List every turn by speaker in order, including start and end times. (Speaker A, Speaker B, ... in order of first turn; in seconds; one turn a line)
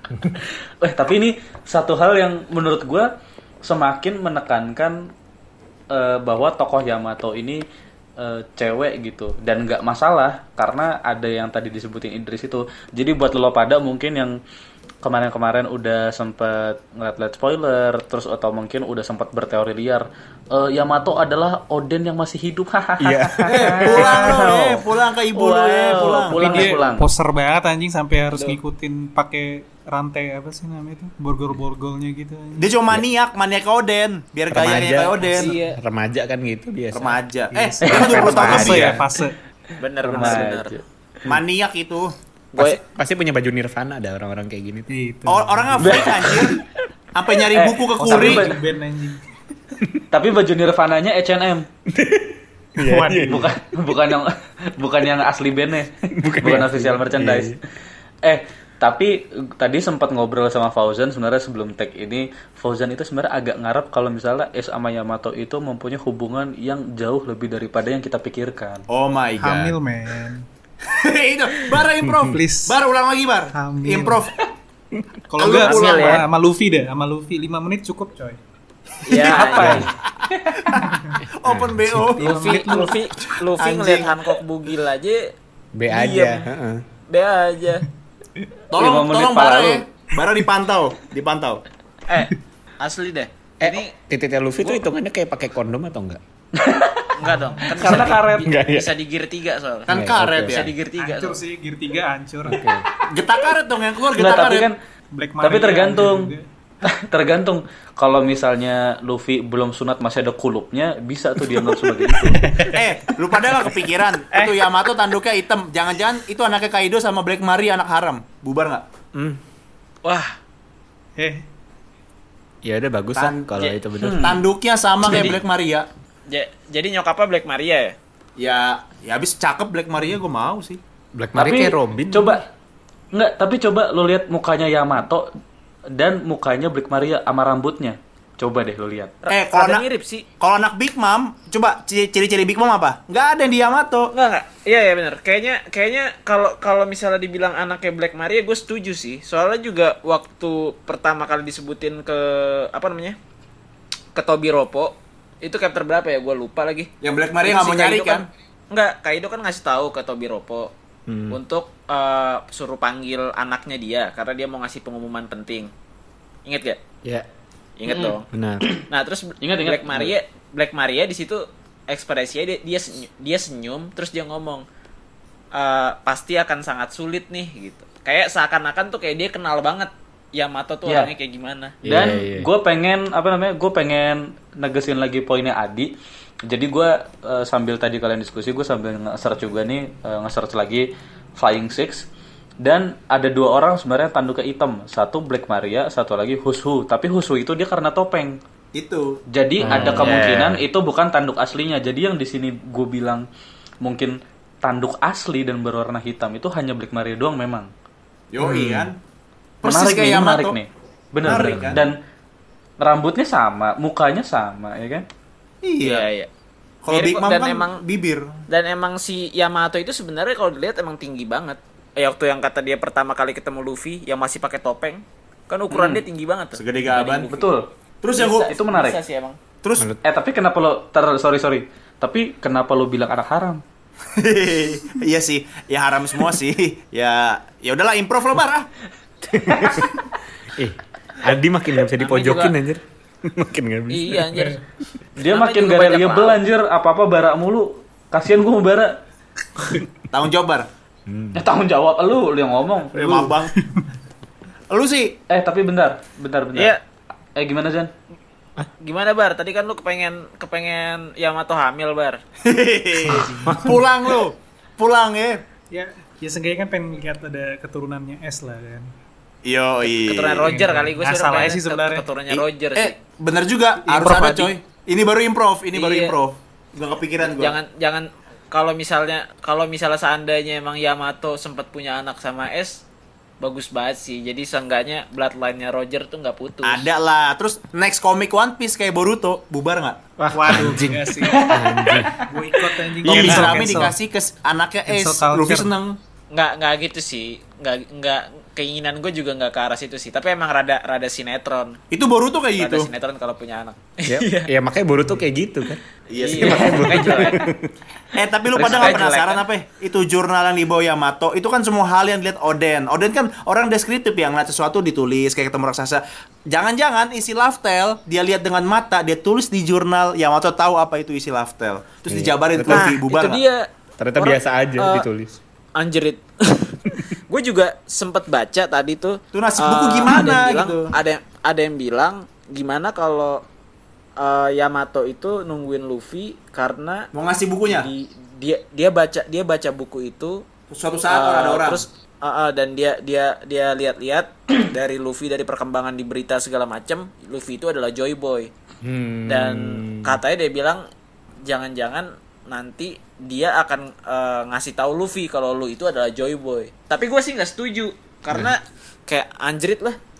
Speaker A: 0.3-3.1
Speaker A: 3.6-5.1
Speaker A: 5.9-7.6
Speaker A: 8.2-14.4
Speaker A: 15.0-27.1
Speaker B: 23.0-24.4
Speaker C: 23.5-26.7
Speaker D: 26.3-32.7
Speaker E: 28.3-28.6
Speaker C: 32.6-35.5
Speaker B: 34.5-37.2
Speaker E: 35.2-35.8
Speaker C: 36.9-39.0
Speaker D: 37.5-39.3
Speaker A: 37.8-39.0
Speaker B: 37.9-39.0
Speaker E: 39.8-40.8
Speaker A: 40.0-40.8
Speaker C: 41.2-42.1
Speaker E: 42.5-42.8
Speaker B: 42.5-44.9
Speaker D: 44.9-46.3
Speaker C: 45.3-46.6
Speaker A: 45.8-46.5
Speaker C: 47.1-48.5
Speaker A: 47.5-48.6
Speaker D: 48.0-49.2
Speaker A: 50.1-51.7
Speaker B: 51.9-53.5
Speaker D: 52.8-53.5
Speaker A: 53.2-57.6
Speaker B: 56.1-57.6
Speaker A: 58.2-68.8
Speaker C: 68.9-69.8
Speaker D: 69.4-70.5
Speaker C: 70.8-74.4
Speaker D: 72.2-72.8
Speaker D: 73.5-74.2
Speaker D: 75.3-78.4
Speaker C: 75.4-76.3
Speaker E: 75.5-76.2
Speaker E: 79.0-79.9
Speaker C: 79.1-79.8
Speaker A: 79.4-79.8
Speaker B: 79.5-79.9
Speaker D: 79.5-79.9
Speaker A: 80.3-80.7
Speaker C: 80.5-82.9
Speaker D: 80.8-81.2
Speaker B: 81.4-82.2
Speaker D: 82.2-83.0
Speaker E: 82.2-85.3
Speaker C: 83.5-84.3
Speaker B: 85.7-86.8
Speaker E: 85.9-86.5
Speaker E: 87.1-87.8
Speaker C: 88.7-91.6
Speaker A: 88.8-89.8
Speaker E: 92.1-93.9
Speaker B: 93.6-96.2
Speaker A: 96.5-97.1
Speaker E: 97.1-99.9
Speaker D: 97.2-97.8
Speaker A: 97.7-98.5
Speaker B: 97.9-98.9
Speaker C: 99.9-100.7
Speaker B: 99.9-100.7
Speaker E: 100.4-101.4
Speaker D: 101.0-102.7
Speaker B: 102.5-102.9
Speaker C: 103.0-104.7
Speaker A: 104.1-104.8
Speaker D: 105.1-106.4
Speaker A: 105.4-106.3
Speaker A: 106.8-112.5
Speaker D: 111.8-112.8
Speaker C: 112.7-118.8
Speaker D: 114.3-114.7
Speaker B: 119.1-119.4
Speaker E: 120.0-120.3
Speaker D: 121.2-121.4
Speaker B: 122.6-124.4
Speaker C: 123.2-125.9
Speaker A: 124.0-124.4
Speaker A: 125.1-125.3
Speaker E: 126.3-128.0
Speaker C: 128.4-130.8
Speaker B: 131.1-132.4
Speaker A: 131.3-132.4
Speaker A: 133.1-135.3
Speaker A: 135.9-139.1
Speaker E: 139.2-140.2
Speaker C: 139.3-139.8
Speaker C: 140.4-144.1
Speaker E: 144.1-153.2
Speaker E: 154.1-156.9
Speaker C: 157.0-158.3
Speaker E: 157.4-160.7
Speaker B: 161.1-161.4
Speaker E: 161.3-165.7
Speaker E: 166.4-166.8
Speaker E: 167.8-168.3
Speaker B: 168.3-168.7
Speaker E: 168.9-174.6
Speaker A: 169.4-170.1
Speaker E: 175.5-181.7
Speaker B: 181.8-182.5
Speaker A: 181.8-185.9
Speaker A: 186.5-192.1
Speaker A: 192.6-198.4
Speaker C: 198.7-199.2
Speaker A: 199.3-203.2
Speaker B: 199.6-200.6
Speaker A: 203.8-207.7
Speaker C: 208.3-209.0
Speaker B: 208.4-208.9
Speaker C: 209.6-210.6
Speaker A: 209.6-212.0
Speaker C: 211.2-211.8
Speaker B: 211.2-211.8
Speaker A: 212.8-215.1
Speaker C: 215.6-216.1
Speaker E: 215.8-216.3
Speaker C: 216.8-218.4
Speaker E: 216.9-217.8
Speaker E: 218.5-227.4
Speaker A: 225.7-226.0
Speaker C: 226.5-227.3
Speaker A: 226.9-227.7
Speaker C: 228.0-228.5
Speaker E: 228.1-229.4
Speaker A: 228.4-229.0
Speaker C: 229.6-229.9
Speaker A: 230.0-233.6
Speaker C: 234.1-238.7
Speaker B: 239.3-244.5
Speaker A: 239.5-239.7
Speaker E: 242.0-242.5
Speaker E: 243.9-244.6
Speaker D: 244.3-244.6
Speaker A: 245.2-249.0
Speaker E: 245.2-246.4
Speaker C: 250.1-250.7
Speaker B: 251.1-251.4
Speaker A: 251.3-253.3
Speaker C: 252.9-253.5
Speaker D: 253.6-253.9
Speaker C: 254.7-255.2
Speaker A: 255.3-256.8
Speaker A: 257.4-257.9
Speaker E: 258.8-262.2
Speaker C: 262.4-265.4
Speaker D: 263.1-263.7
Speaker B: 263.1-263.8
Speaker D: 265.7-268.9
Speaker C: 269.4-270.6
Speaker E: 269.8-272.9
Speaker D: 270.4-272.1
Speaker C: 272.3-277.6
Speaker E: 273.9-274.5
Speaker E: 275.7-276.1
Speaker E: 277.2-282.8
Speaker E: 283.4-286.9
Speaker C: 286.6-290.0
Speaker B: 290.2-292.1
Speaker D: 290.3-291.5
Speaker D: 292.3-294.0
Speaker C: 293.0-295.9
Speaker D: 294.9-295.7
Speaker E: 296.3-301.8
Speaker C: 301.9-302.9
Speaker E: 302.6-304.5
Speaker B: 304.1-305.8
Speaker C: 306.1-306.8
Speaker E: 306.1-307.5
Speaker B: 306.4-307.7
Speaker A: 306.5-307.3
Speaker C: 308.1-323.4
Speaker A: 308.5-309.0
Speaker E: 308.6-309.4
Speaker B: 322.1-323.0
Speaker E: 322.7-325.1
Speaker B: 324.0-325.4
Speaker E: 325.8-333.4
Speaker C: 329.3-330.9
Speaker E: 334.2-337.1
Speaker C: 337.1-337.9
Speaker E: 337.7-340.4
Speaker C: 340.7-341.8
Speaker E: 341.1-348.5
Speaker B: 348.8-350.2
Speaker E: 349.3-350.8
Speaker E: 351.4-360.0